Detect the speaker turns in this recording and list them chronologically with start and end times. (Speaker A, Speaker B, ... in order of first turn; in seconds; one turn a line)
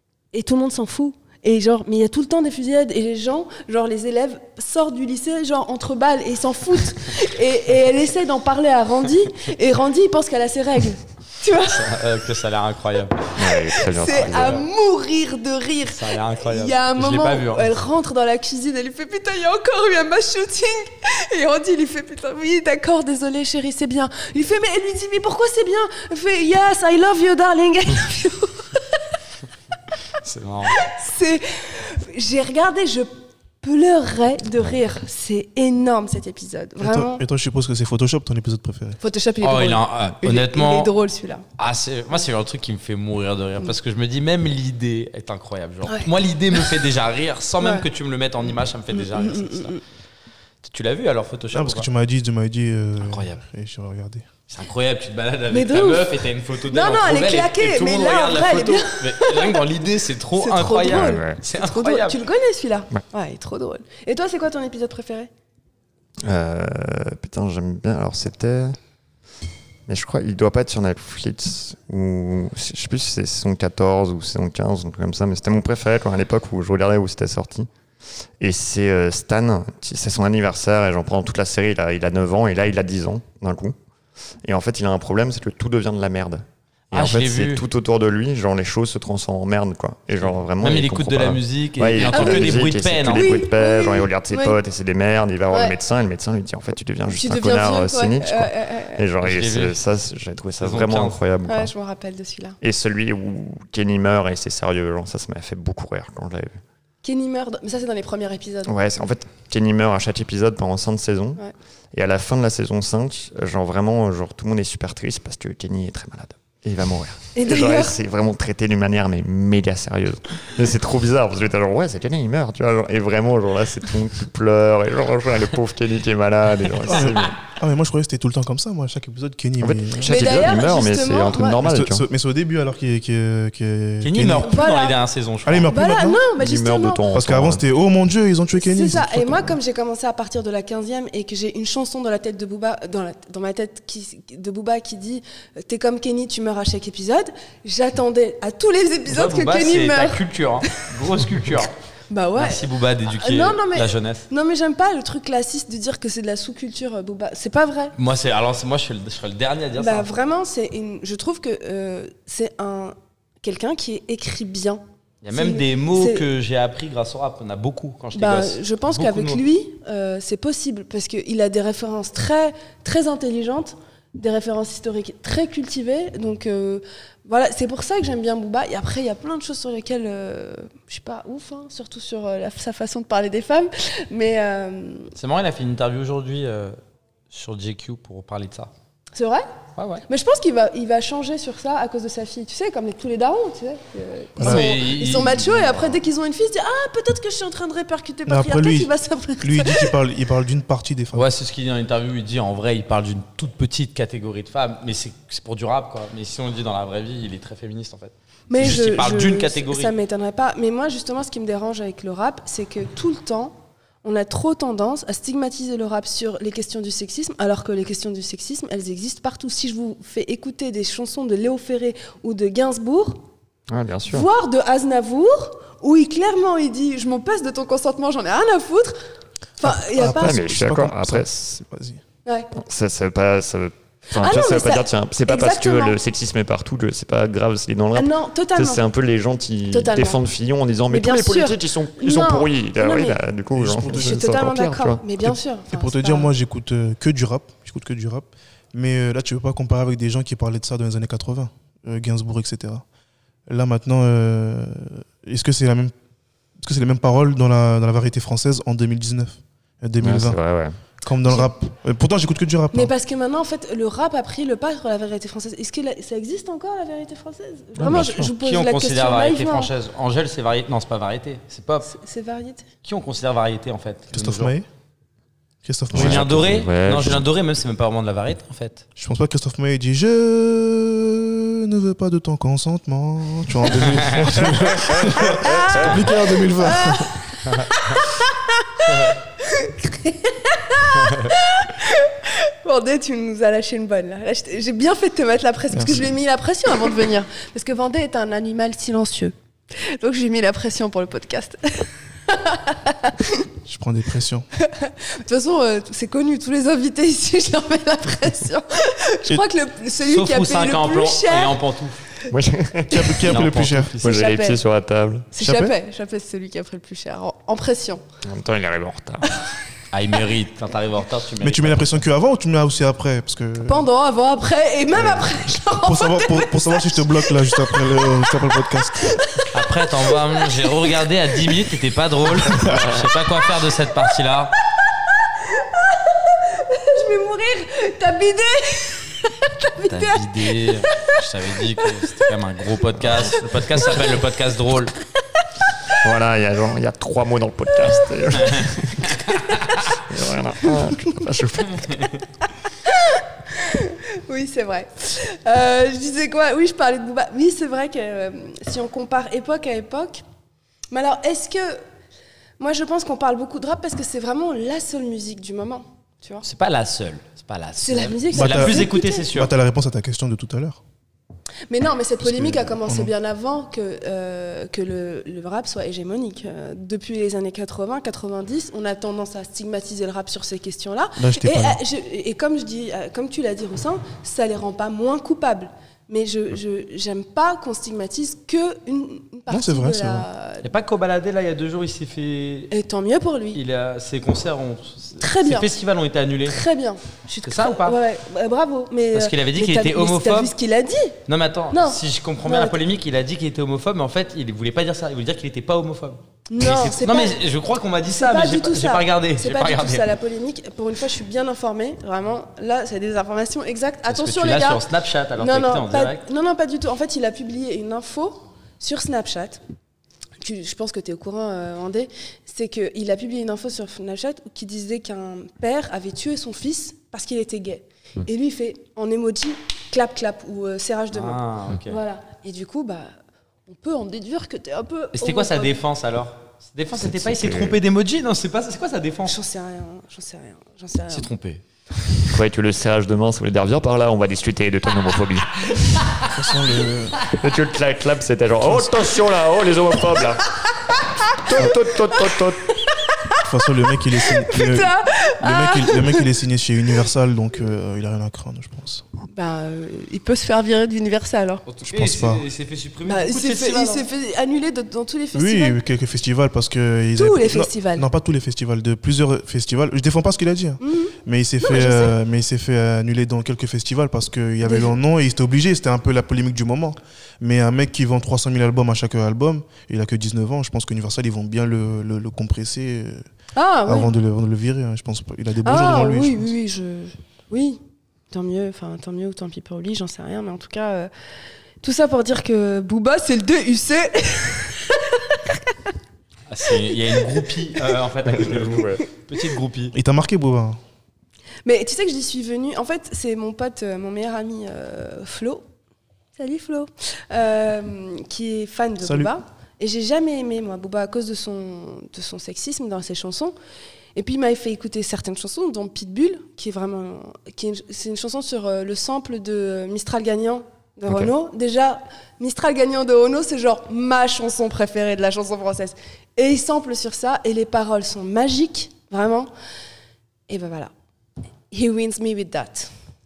Speaker A: 0.3-12.0
Speaker B: 11.7-13.3
Speaker C: 13.3-14.6
Speaker A: 13.7-28.9
Speaker B: 15.9-17.8
Speaker B: 30.2-30.9
Speaker A: 30.7-33.1
Speaker A: 33.6-37.2
Speaker D: 36.8-39.0
Speaker A: 39.0-41.4
Speaker B: 39.4-40.9
Speaker B: 41.6-49.8
Speaker A: 48.9-49.8
Speaker B: 50.6-51.9
Speaker D: 51.5-54.3
Speaker B: 53.0-53.4
Speaker B: 54.5-62.2
Speaker A: 55.5-59.6
Speaker A: 60.4-65.3
Speaker C: 60.9-61.4
Speaker C: 66.2-68.8
Speaker C: 69.9-77.7
Speaker C: 78.4-83.8
Speaker C: 84.4-101.7
Speaker B: 86.9-87.6
Speaker B: 90.2-93.3
Speaker A: 92.0-94.5
Speaker A: 97.1-99.0
Speaker B: 99.2-99.8
Speaker B: 100.6-101.2
Speaker A: 101.5-102.6
Speaker C: 102.6-106.6
Speaker A: 107.0-108.7
Speaker C: 108.7-127.4
Speaker A: 117.3-118.0
Speaker D: 126.8-130.3
Speaker C: 129.6-132.0
Speaker A: 130.0-131.6
Speaker D: 131.6-134.5
Speaker B: 134.0-135.7
Speaker A: 134.5-135.0
Speaker D: 135.4-136.2
Speaker A: 135.7-137.1
Speaker C: 136.3-137.6
Speaker D: 137.1-139.5
Speaker A: 138.6-150.2
Speaker B: 149.1-151.7
Speaker A: 152.1-157.9
Speaker B: 152.3-154.3
Speaker B: 157.9-160.1
Speaker A: 159.8-166.2
Speaker B: 165.2-169.4
Speaker A: 168.1-185.1
Speaker B: 185.2-186.8
Speaker B: 187.3-188.7
Speaker A: 189.1-189.5
Speaker B: 189.8-190.0
Speaker A: 190.1-199.9
Speaker D: 194.4-194.7
Speaker B: 194.4-195.9
Speaker D: 198.2-201.3
Speaker B: 201.1-209.9
Speaker A: 208.5-223.2
Speaker C: 223.7-224.3
Speaker A: 224.1-229.0
Speaker A: 229.6-230.4
Speaker D: 229.6-232.0
Speaker C: 230.0-231.6
Speaker A: 232.2-232.5
Speaker C: 232.5-245.0
Speaker A: 234.1-235.9
Speaker A: 237.9-238.8
Speaker A: 239.7-240.2
Speaker A: 240.9-243.2
Speaker D: 243.5-244.2
Speaker A: 243.9-246.3
Speaker D: 245.2-252.8
Speaker D: 253.5-255.9
Speaker D: 256.6-260.4
Speaker C: 260.0-260.8
Speaker D: 261.0-262.9
Speaker A: 262.7-269.7
Speaker C: 267.8-268.3
Speaker B: 267.8-271.9
Speaker A: 271.9-272.6
Speaker B: 272.8-274.5
Speaker D: 274.1-274.7
Speaker D: 275.6-276.6
Speaker C: 275.9-277.3
Speaker B: 275.9-278.8
Speaker D: 279.0-287.1
Speaker B: 283.9-284.3
Speaker C: 284.1-286.1
Speaker A: 285.3-303.4
Speaker D: 295.7-296.1
Speaker D: 303.6-304.5
Speaker A: 304.6-311.6
Speaker B: 310.1-312.0
Speaker C: 312.3-313.4
Speaker D: 312.9-314.2
Speaker B: 313.2-313.9
Speaker C: 314.0-315.3
Speaker A: 314.0-314.6
Speaker A: 315.3-318.0
Speaker D: 315.4-315.7
Speaker C: 318.2-319.4
Speaker B: 319.9-322.0
Speaker D: 321.4-323.9
Speaker A: 323.6-328.3
Speaker D: 325.6-329.2
Speaker A: 329.0-330.9
Speaker B: 329.5-334.5
Speaker D: 332.4-332.8
Speaker C: 332.7-332.9
Speaker A: 334.7-344.2
Speaker B: 339.9-344.9
Speaker A: 345.4-345.9
Speaker C: 345.9-352.2
Speaker A: 347.8-349.9
Speaker B: 348.4-349.2
Speaker A: 350.6-350.9
Speaker B: 351.8-352.1
Speaker A: 352.8-360.2
Speaker A: 360.9-361.8
Speaker A: 362.6-366.4
Speaker B: 366.4-369.5
Speaker A: 367.8-369.3
Speaker D: 368.3-370.8
Speaker A: 371.7-390.7
Speaker D: 372.3-373.1
Speaker D: 381.2-381.8
Speaker D: 389.5-390.2
Speaker B: 390.6-392.7
Speaker A: 392.7-393.6
Speaker B: 393.5-396.6
Speaker A: 395.2-395.7
Speaker A: 396.5-401.2
Speaker B: 397.4-398.0
Speaker B: 399.1-400.5
Speaker B: 401.3-410.0
Speaker A: 401.7-402.8
Speaker A: 406.5-407.4
Speaker A: 408.2-414.8
Speaker B: 414.1-416.2
Speaker A: 415.4-419.6
Speaker A: 420.4-433.1
Speaker B: 431.1-432.0
Speaker A: 433.7-435.8
Speaker B: 435.1-439.3
Speaker C: 436.9-437.8
Speaker A: 439.2-441.3
Speaker B: 441.1-441.6
Speaker C: 442.3-446.1
Speaker D: 446.2-447.2
Speaker C: 447.2-450.6
Speaker D: 448.6-448.9
Speaker A: 450.9-451.4
Speaker C: 451.2-452.7
Speaker A: 452.7-453.5
Speaker D: 453.4-459.0
Speaker A: 454.1-456.3
Speaker A: 459.3-461.6
Speaker B: 461.6-464.1
Speaker D: 461.9-462.4
Speaker A: 463.1-465.8
Speaker D: 465.3-483.2
Speaker A: 467.1-468.1
Speaker A: 470.8-472.1
Speaker A: 474.6-474.9
Speaker A: 483.6-484.1
Speaker D: 483.9-486.5
Speaker A: 485.6-491.1
Speaker A: 491.8-495.7
Speaker B: 496.5-499.9
Speaker A: 497.1-497.9
Speaker C: 498.3-499.0
Speaker D: 499.9-500.8
Speaker A: 501.6-505.6
Speaker A: 506.4-513.5
Speaker D: 509.0-509.3
Speaker A: 514.1-529.5
Speaker A: 530.5-530.9
Speaker A: 531.7-532.9